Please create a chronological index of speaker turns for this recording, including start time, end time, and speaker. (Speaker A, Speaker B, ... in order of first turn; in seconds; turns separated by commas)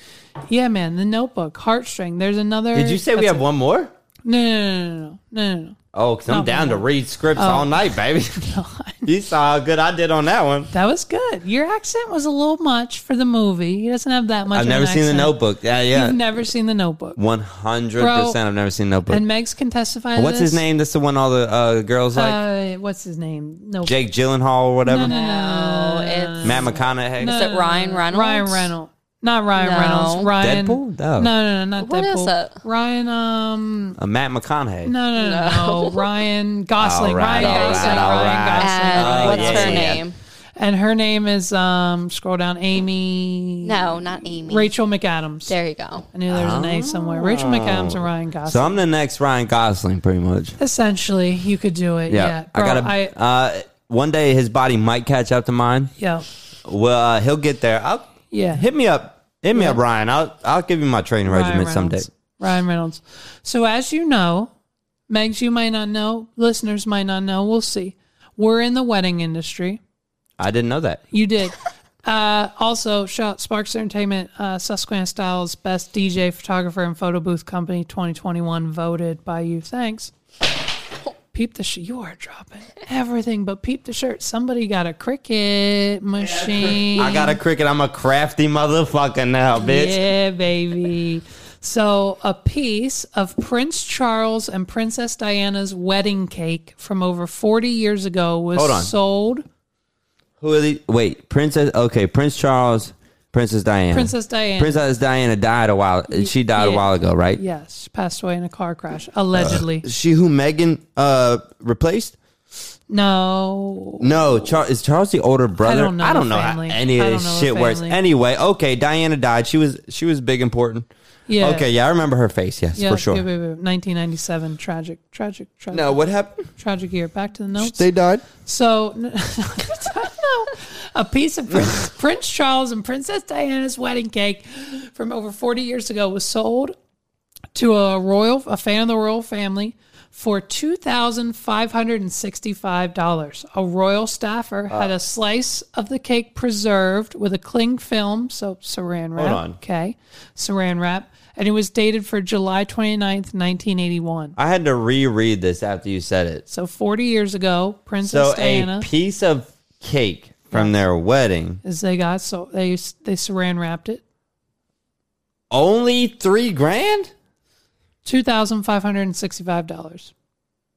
Speaker A: 0.5-3.4, Speaker B: 2.7-3.9, Speaker A: 4.2-5.8, Speaker B: 5.9-8.5, Speaker A: 6.3-7.8, Speaker A: 8.3-9.1, Speaker B: 9.1-10.7, Speaker A: 10.7-15.3, Speaker B: 14.5-16.2, Speaker A: 15.9-17.2, Speaker B: 17.1-19.2, Speaker A: 18.0-18.4, Speaker A: 19.1-20.6, Speaker B: 20.1-22.4, Speaker A: 22.1-23.9, Speaker B: 23.8-25.1, Speaker A: 24.8-34.0, Speaker C: 25.1-28.7, Speaker B: 26.4-27.4, Speaker C: 29.6-30.3, Speaker B: 30.4-31.3, Speaker C: 31.8-32.6, Speaker B: 34.0-34.9, Speaker A: 34.8-40.0, Speaker C: 35.1-36.1, Speaker B: 36.8-40.0, Speaker C: 37.3-40.1, Speaker A: 40.6-43.8, Speaker C: 43.6-44.7, Speaker A: 44.5-45.5, Speaker C: 45.5-46.1, Speaker A: 46.1-48.8, Speaker B: 46.3-50.5, Speaker A: 50.6-53.1, Speaker B: 52.1-55.9, Speaker A: 56.0-56.2, Speaker B: 56.6-62.1, Speaker A: 58.3-58.6, Speaker A: 59.5-59.8, Speaker A: 61.2-64.5, Speaker A: 65.1-69.8, Speaker B: 70.4-71.0, Speaker A: 71.1-80.1, Speaker A: 81.3-87.4, Speaker B: 86.2-90.0, Speaker A: 89.6-99.4, Speaker B: 98.5-98.9, Speaker B: 100.4-107.4, Speaker A: 103.9-104.8, Speaker A: 106.1-109.8, Speaker B: 109.3-112.2, Speaker A: 112.9-114.5, Speaker B: 114.0-120.9, Speaker A: 115.6-118.0, Speaker A: 121.3-121.7, Speaker B: 121.4-123.2, Speaker A: 122.8-126.0, Speaker B: 125.7-126.5, Speaker A: 126.5-136.7, Speaker B: 127.6-128.2, Speaker A: 137.5-154.3, Speaker B: 149.2-149.6, Speaker B: 154.4-156.4, Speaker A: 156.5-158.9, Speaker B: 158.0-161.6, Speaker A: 161.6-164.0, Speaker B: 165.5-167.1, Speaker A: 168.0-170.1